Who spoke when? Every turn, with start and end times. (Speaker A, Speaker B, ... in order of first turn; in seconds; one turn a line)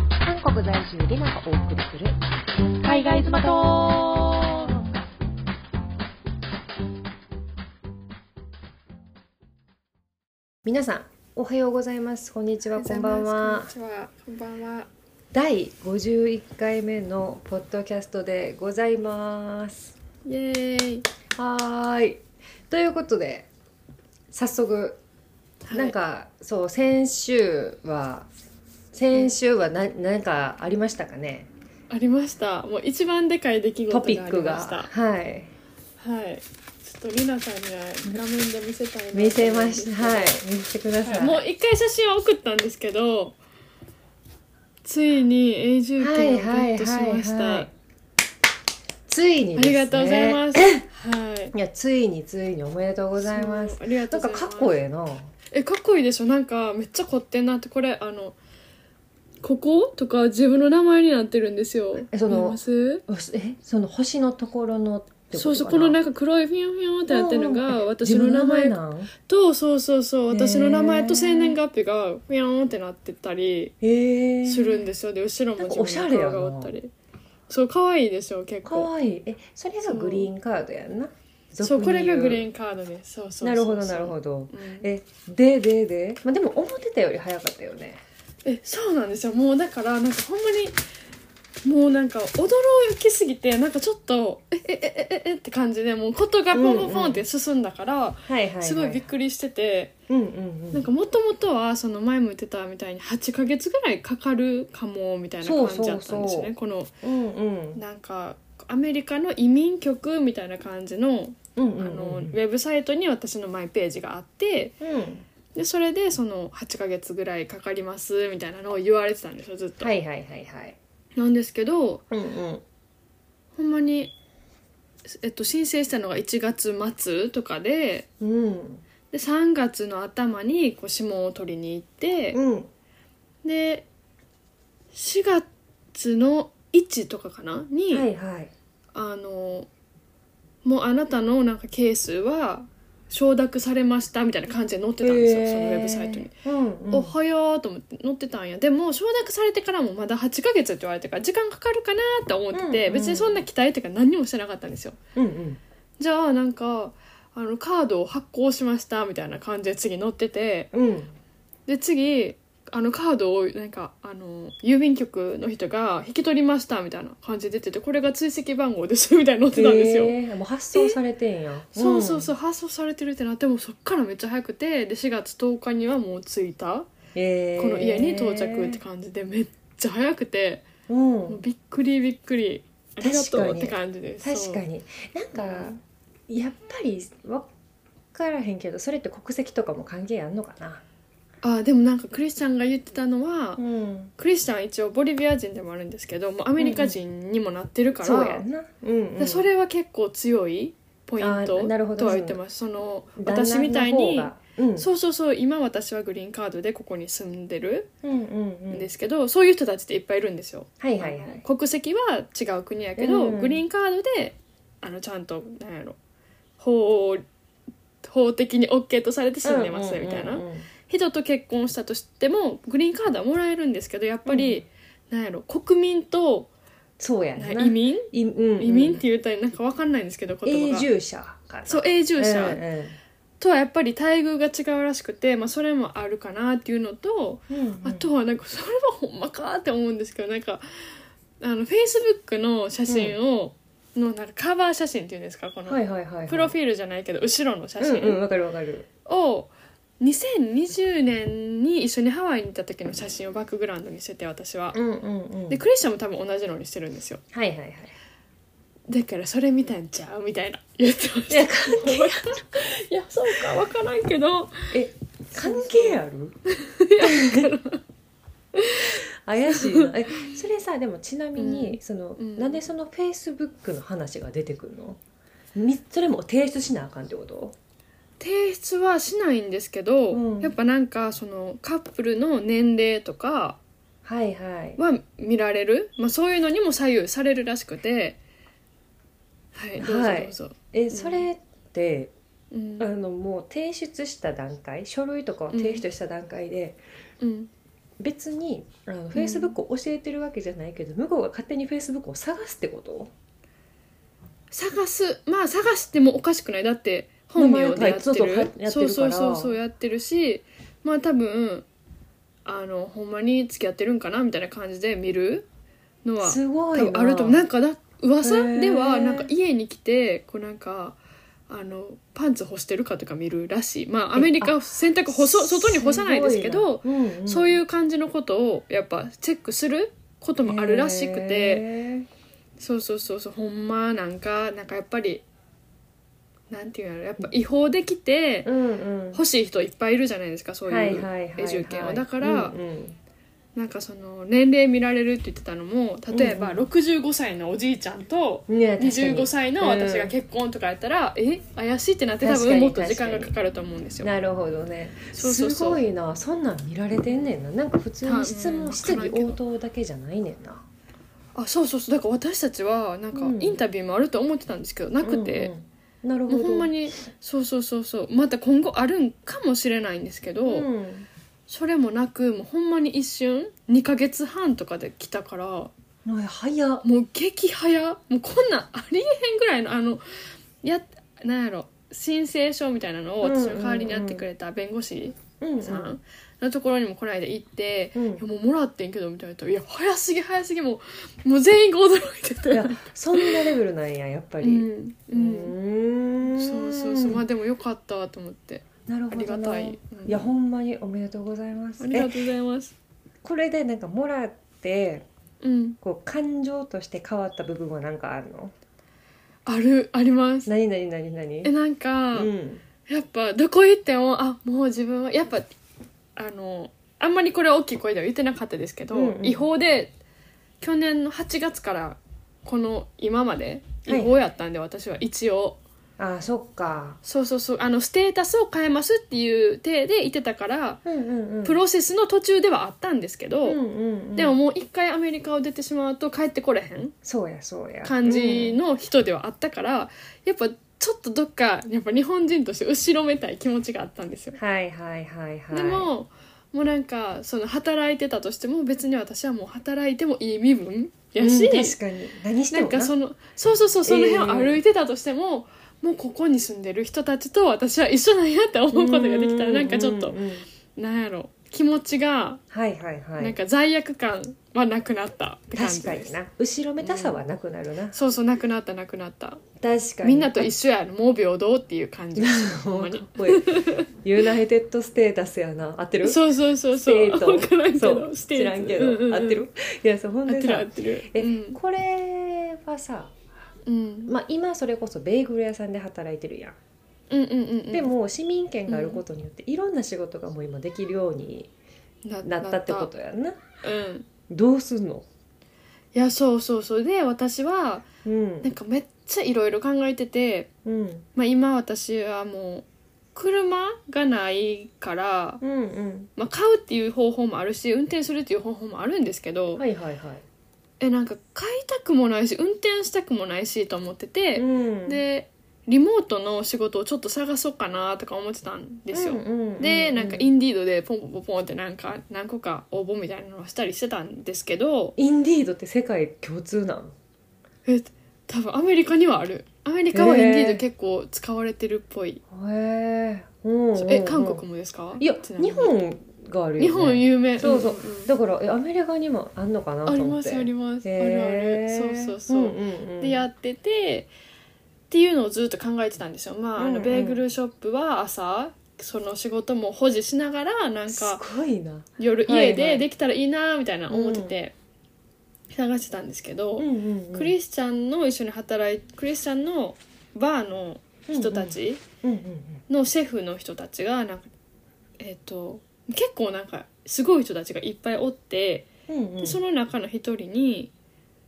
Speaker A: 0.3-2.1
Speaker B: 2.8-4.8
Speaker A: 10.7-13.7
Speaker C: 12.8-14.9
Speaker A: 15.3-19.9
Speaker C: 20.2-21.1
Speaker A: 21.4-23.5
Speaker A: 24.3-25.0
Speaker C: 25.6-26.0
Speaker A: 25.7-28.3
Speaker A: 28.9-31.5
Speaker C: 31.9-34.9
Speaker A: 33.9-35.5
Speaker C: 36.0-40.4
Speaker A: 39.1-41.4
Speaker C: 41.0-43.4
Speaker C: 44.9-47.7
Speaker A: 46.0-47.7
Speaker A: 49.1-50.9
Speaker C: 49.5-51.5
Speaker A: 51.5-55.3
Speaker C: 53.2-54.8
Speaker C: 55.5-58.4
Speaker C: 59.4-63.0
Speaker A: 62.1-66.0
Speaker C: 65.3-68.8
Speaker A: 67.1-69.1
Speaker C: 69.3-73.7
Speaker A: 70.3-71.6
Speaker A: 73.8-74.8
Speaker C: 74.5-76.9
Speaker A: 75.6-76.7
Speaker C: 77.5-78.9
Speaker A: 78.7-82.5
Speaker C: 79.8-80.3
Speaker C: 81.6-84.9
Speaker A: 83.4-88.0
Speaker C: 88.5-90.8
Speaker C: 91.7-100.0
Speaker A: 96.5-97.2
Speaker A: 98.3-99.1
Speaker A: 100.1-100.9
Speaker C: 100.7-106.9
Speaker A: 105.4-107.8
Speaker C: 107.8-114.8
Speaker A: 111.6-112.3
Speaker A: 114.8-115.2
Speaker C: 115.5-120.0
Speaker A: 119.8-120.8
Speaker C: 121.2-122.0
Speaker A: 122.1-122.6
Speaker C: 123.5-124.1
Speaker C: 125.2-128.1
Speaker A: 128.2-128.8
Speaker C: 129.1-132.4
Speaker A: 132.3-132.7
Speaker C: 133.4-133.9
Speaker C: 134.9-138.1
Speaker A: 137.9-138.5
Speaker C: 138.9-139.7
Speaker C: 140.6-146.3
Speaker A: 145.0-147.1
Speaker C: 146.9-155.0
Speaker A: 152.5-153.4
Speaker A: 155.2-155.6
Speaker C: 156.0-160.7
Speaker A: 160.7-161.2
Speaker C: 161.7-170.2
Speaker A: 169.5-172.3
Speaker C: 171.8-176.9
Speaker A: 177.2-178.8
Speaker C: 177.6-180.7
Speaker A: 180.9-181.4
Speaker C: 181.3-184.6
Speaker A: 183.0-187.5
Speaker C: 185.4-185.8
Speaker A: 188.1-190.8
Speaker C: 191.4-193.6
Speaker A: 193.6-194.1
Speaker C: 194.2-198.4
Speaker A: 196.6-197.0
Speaker A: 198.0-199.5
Speaker C: 199.2-207.9
Speaker A: 201.2-202.4
Speaker A: 203.2-204.9
Speaker A: 208.0-208.9
Speaker C: 208.7-216.0
Speaker A: 210.8-211.4
Speaker A: 213.0-213.6
Speaker C: 216.6-217.2
Speaker C: 218.0-226.5
Speaker A: 219.4-220.7
Speaker A: 224.3-224.7
Speaker A: 227.0-229.0
Speaker C: 227.4-230.9
Speaker A: 230.5-233.0
Speaker C: 231.7-232.6
Speaker C: 233.4-240.6
Speaker A: 237.5-238.1
Speaker C: 241.4-248.2
Speaker A: 242.9-243.2
Speaker A: 245.7-246.6
Speaker A: 247.8-248.9
Speaker C: 249.1-254.8
Speaker A: 254.7-255.6
Speaker C: 255.5-257.2
Speaker A: 257.3-257.9
Speaker C: 258.9-264.8
Speaker A: 261.3-262.6
Speaker A: 264.7-266.4
Speaker C: 265.4-266.0
Speaker C: 266.5-267.8
Speaker A: 267.0-267.5
Speaker C: 268.6-269.9
Speaker A: 269.2-275.0
Speaker C: 271.4-272.6
Speaker A: 275.6-277.6
Speaker C: 278.2-283.6
Speaker A: 280.1-280.5
Speaker A: 284.1-284.8
Speaker C: 284.8-288.2
Speaker C: 289.5-291.3
Speaker A: 289.8-292.1
Speaker C: 292.5-292.9
Speaker A: 292.8-296.8
Speaker C: 295.5-295.8
Speaker C: 297.2-297.5
Speaker A: 298.0-303.1
Speaker C: 299.1-299.6
Speaker C: 304.5-311.7
Speaker A: 307.4-309.6
Speaker C: 312.4-315.5
Speaker C: 316.1-321.0
Speaker A: 316.2-317.4
Speaker A: 318.2-319.3
Speaker C: 321.5-331.7
Speaker A: 324.1-324.6
Speaker A: 325.1-327.6
Speaker A: 330.5-332.1
Speaker C: 332.6-335.2
Speaker C: 336.5-338.5
Speaker A: 338.4-339.2
Speaker C: 339.1-342.6
Speaker A: 340.7-343.0
Speaker C: 343.6-354.1
Speaker A: 346.1-346.7
Speaker A: 348.5-350.1
Speaker A: 352.2-353.4
Speaker A: 354.0-360.6
Speaker C: 355.1-355.8
Speaker C: 358.0-359.4
Speaker C: 361.4-365.5
Speaker A: 363.1-363.6
Speaker A: 365.0-366.7
Speaker C: 366.3-370.7
Speaker A: 370.5-371.1
Speaker C: 371.5-375.7
Speaker A: 376.1-376.9
Speaker C: 376.8-380.0
Speaker C: 380.6-393.5
Speaker A: 383.2-384.2
Speaker A: 385.4-385.9
Speaker A: 387.9-388.2
Speaker A: 392.5-397.2
Speaker C: 394.4-395.5
Speaker C: 396.4-400.3
Speaker A: 398.9-402.1
Speaker C: 401.8-402.7
Speaker A: 403.2-405.1
Speaker C: 405.4-405.8
Speaker A: 405.8-408.5
Speaker C: 409.5-410.5
Speaker A: 410.5-411.5
Speaker C: 411.4-412.3
Speaker A: 412.1-412.6
Speaker C: 412.9-415.5
Speaker C: 416.2-419.9
Speaker A: 418.9-419.5
Speaker C: 420.6-425.6
Speaker A: 423.9-424.1
Speaker A: 426.0-427.0
Speaker C: 427.0-430.8
Speaker A: 430.9-431.6
Speaker C: 431.4-433.6
Speaker A: 433.4-434.4
Speaker C: 434.2-436.9
Speaker A: 437.0-438.6
Speaker C: 437.8-444.4
Speaker A: 444.4-445.9
Speaker C: 445.5-451.8
Speaker A: 451.2-452.9
Speaker C: 452.5-460.2
Speaker A: 453.9-454.6
Speaker A: 458.7-460.5
Speaker C: 460.8-462.4
Speaker A: 462.5-463.4
Speaker C: 463.2-466.1
Speaker A: 465.5-468.0
Speaker C: 466.8-467.2
Speaker C: 467.9-469.4
Speaker A: 469.6-470.5
Speaker C: 470.0-473.9
Speaker A: 472.2-476.2
Speaker C: 476.0-479.4
Speaker A: 476.7-483.2
Speaker C: 480.3-481.6
Speaker C: 483.7-484.1
Speaker A: 484.1-486.6
Speaker C: 487.1-487.9
Speaker A: 487.7-491.5
Speaker C: 488.7-489.0
Speaker C: 492.1-492.9
Speaker A: 492.2-493.4
Speaker C: 493.6-494.1
Speaker A: 494.3-495.1
Speaker C: 495.9-497.9
Speaker A: 498.1-498.5
Speaker C: 498.4-500.5
Speaker A: 500.6-501.1
Speaker C: 501.2-505.4
Speaker A: 505.4-506.1
Speaker C: 506.2-509.6
Speaker A: 509.6-510.2
Speaker C: 510.8-525.0
Speaker A: 514.4-515.0
Speaker A: 518.9-520.3
Speaker A: 525.0-527.0
Speaker C: 527.7-532.2
Speaker A: 529.9-530.6
Speaker A: 532.3-534.4
Speaker C: 533.8-535.7
Speaker A: 535.0-543.3
Speaker C: 536.6-538.1
Speaker C: 539.9-544.1
Speaker C: 544.9-551.2
Speaker A: 546.6-547.2
Speaker A: 550.9-552.8
Speaker C: 552.0-554.5
Speaker A: 553.9-554.3
Speaker C: 555.5-561.8
Speaker A: 556.6-557.3
Speaker A: 561.1-562.6
Speaker C: 562.7-564.3
Speaker C: 565.0-568.7
Speaker A: 568.9-569.4
Speaker C: 569.2-570.7